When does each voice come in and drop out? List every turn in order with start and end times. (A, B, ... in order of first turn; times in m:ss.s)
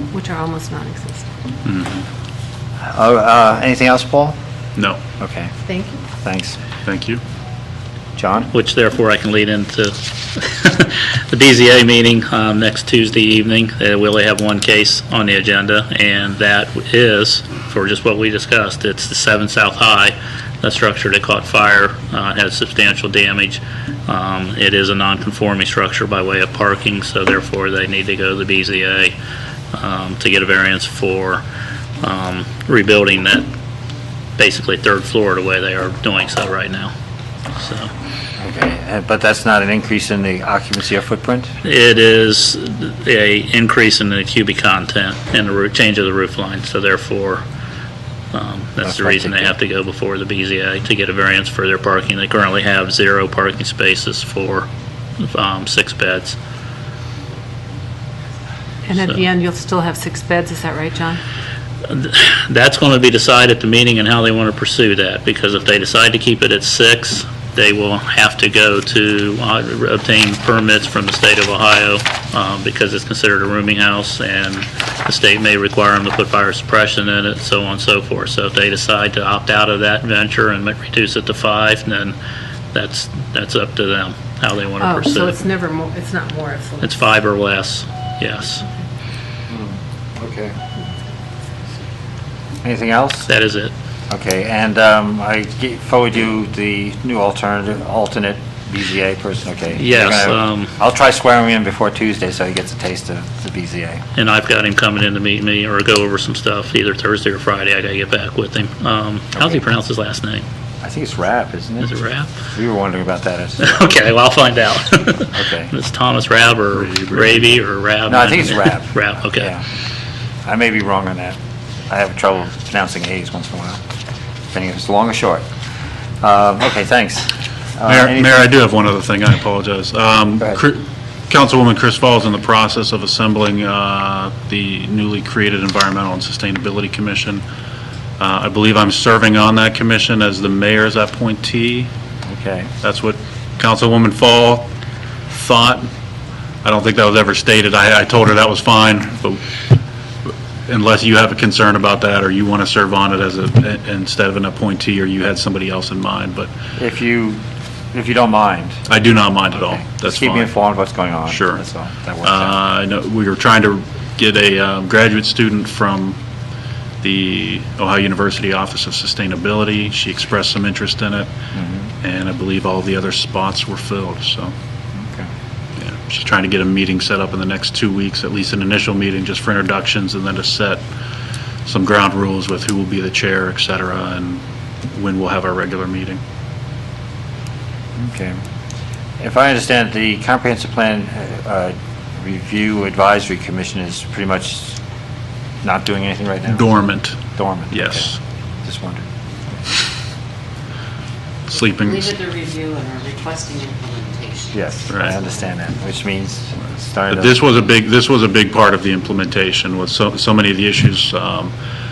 0:00.1-0:01.2 A
0:01.6-0:02.0 B
0:02.9-0:04.4 C
0:05.2-0:05.5 C
0:05.6-0:06.0 A
0:06.1-0:06.6 C
0:06.8-0:07.2 B
0:08.2-0:08.5 C
0:08.5-0:29.2 D
0:29.7-0:31.4 D
0:32.0-0:33.5 D
0:34.4-0:36.9 D
0:37.6-0:37.9 D
0:38.4-0:41.5 C
0:41.6-0:47.4 D
0:48.3-0:54.7 D
0:48.8-0:49.5 C
0:55.2-0:56.4 D
0:58.8-1:01.2 A
1:01.9-1:22.2 D
1:22.7-1:25.4 D
1:24.8-1:26.9 A
1:26.8-1:28.6 D
1:29.5-1:30.6 C
1:32.6-1:33.3 C
1:33.3-1:33.7 D
1:34.1-1:44.0 C
1:39.8-1:40.7 D
1:44.1-1:50.4 D
1:50.8-1:51.9 C
1:51.8-1:52.3 D
1:52.4-1:54.0 C
1:53.6-1:59.5 D
1:55.3-1:55.7 C
1:56.8-1:57.3 B
1:58.1-1:59.6 C
2:00.4-2:01.4 C
2:01.9-2:03.8 C
2:04.5-2:05.4 C
2:06.2-2:08.5 C
2:07.8-2:17.4 B
2:18.2-2:21.9 B
2:22.3-2:22.7 C
2:22.8-2:24.7 B
2:25.3-2:25.9 B
2:26.6-2:29.4 B
2:30.7-2:36.5 B
2:36.8-2:37.4 C
2:37.9-2:38.8 C
2:38.9-2:40.5 B
2:39.5-2:42.6 C
2:41.3-2:41.6 B
2:42.2-2:46.2 B
2:47.0-2:51.3 B
2:51.5-2:51.9 C
2:52.0-2:54.5 B
2:55.0-2:55.3 C
2:55.8-3:00.8 B
3:01.7-3:04.4 B
3:04.9-3:06.2 B
3:08.0-3:08.4 C
3:09.2-3:14.8 C
3:15.6-3:16.7 C
3:16.5-3:18.2 B
3:17.3-3:19.1 C
3:21.5-3:22.2 B
3:22.3-3:24.4 E
3:24.5-3:27.4 C
3:24.9-3:25.2 B
3:27.1-3:31.5 B